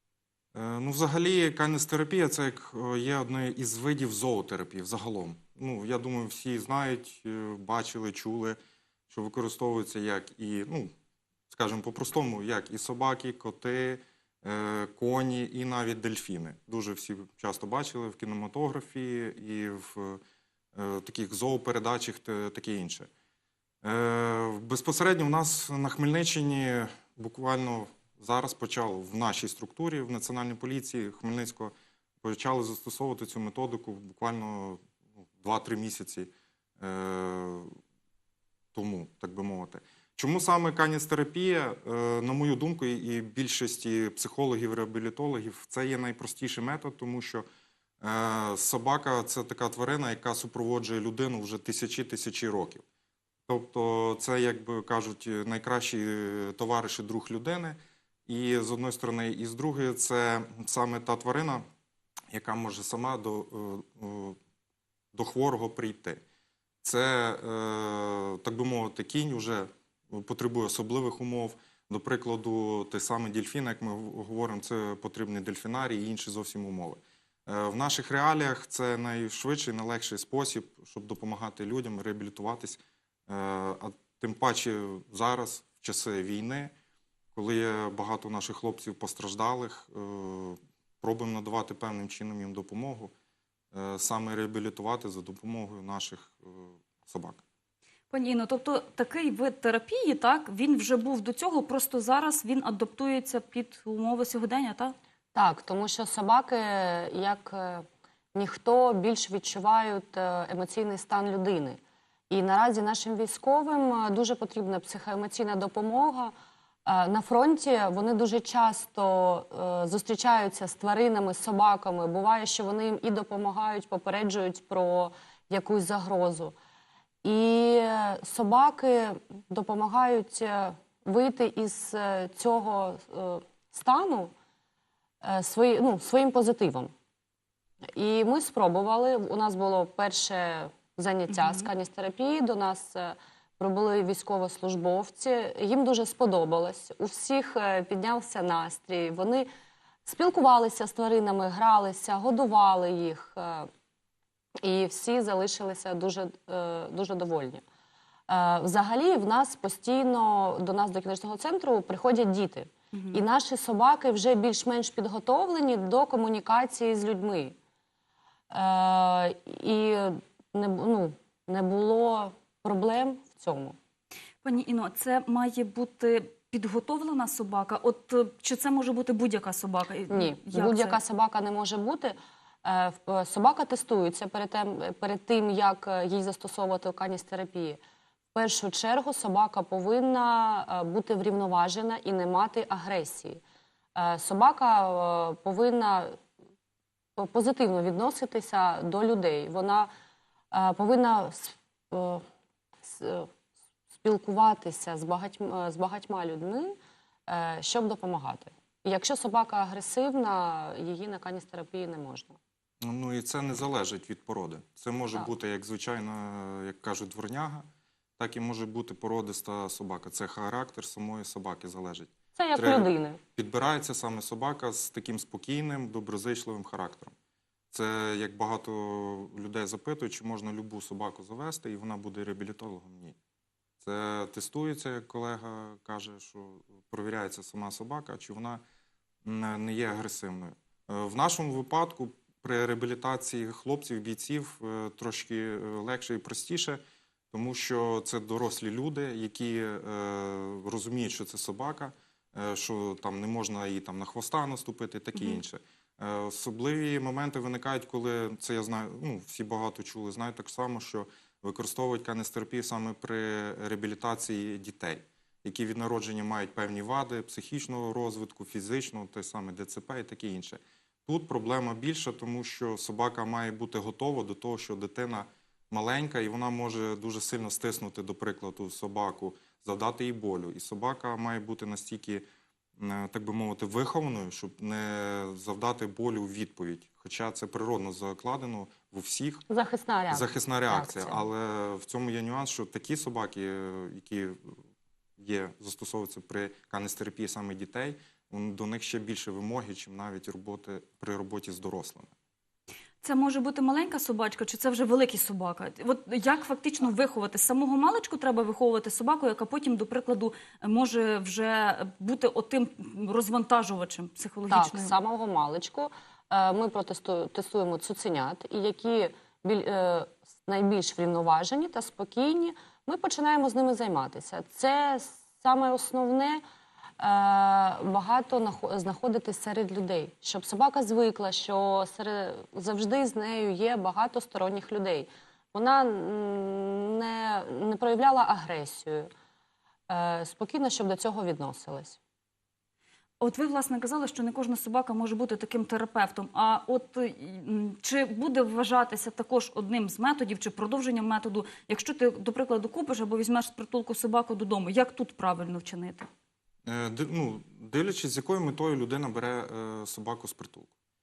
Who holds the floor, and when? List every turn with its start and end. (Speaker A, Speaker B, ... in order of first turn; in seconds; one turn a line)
Speaker A: 0.5-8.6
Speaker A: 9.1-10.9
Speaker A: 11.5-20.2
Speaker A: 20.7-23.1
Speaker A: 23.8-34.8
Speaker A: 35.4-37.8
Speaker A: 38.7-47.4
Speaker A: 48.0-52.8
Speaker A: 53.5-61.6
Speaker A: 62.3-64.4
Speaker A: 65.1-66.2
Speaker A: 66.8-86.7
Speaker A: 87.3-93.1
Speaker A: 93.7-97.4
Speaker B: 98.1-104.9
Speaker C: 105.3-116.3
Speaker C: 116.8-126.5
Speaker C: 127.2-134.3
Speaker C: 135.2-136.9
Speaker C: 137.9-149.5
Speaker B: 141.3-141.7
Speaker C: 150.1-153.7
Speaker C: 154.6-157.6
Speaker C: 158.3-167.6
Speaker B: 162.9-163.2
Speaker C: 168.5-173.8
Speaker B: 174.4-181.0
Speaker C: 180.1-187.8
Speaker C: 188.3-193.4
Speaker C: 193.9-196.2
Speaker C: 197.2-199.9
Speaker C: 200.5-202.2
Speaker C: 202.8-203.3
Speaker C: 203.9-206.8
Speaker C: 207.3-212.4
Speaker A: 212.8-217.6
Speaker A: 218.2-227.1
Speaker C: 222.3-223.2
Speaker A: 227.7-233.2
Speaker A: 233.8-238.6
Speaker A: 239.2-246.8
Speaker A: 247.3-282.2
Speaker B: 255.1-255.4
Speaker A: 282.8-289.4
Speaker C: 289.5-291.2
Speaker A: 290.1-294.6
Speaker A: 295.2-302.1
Speaker B: 303.0-315.0
Speaker C: 314.5-326.4
Speaker C: 327.0-339.1
Speaker C: 339.9-342.0
Speaker B: 343.2-356.1
Speaker A: 356.6-360.7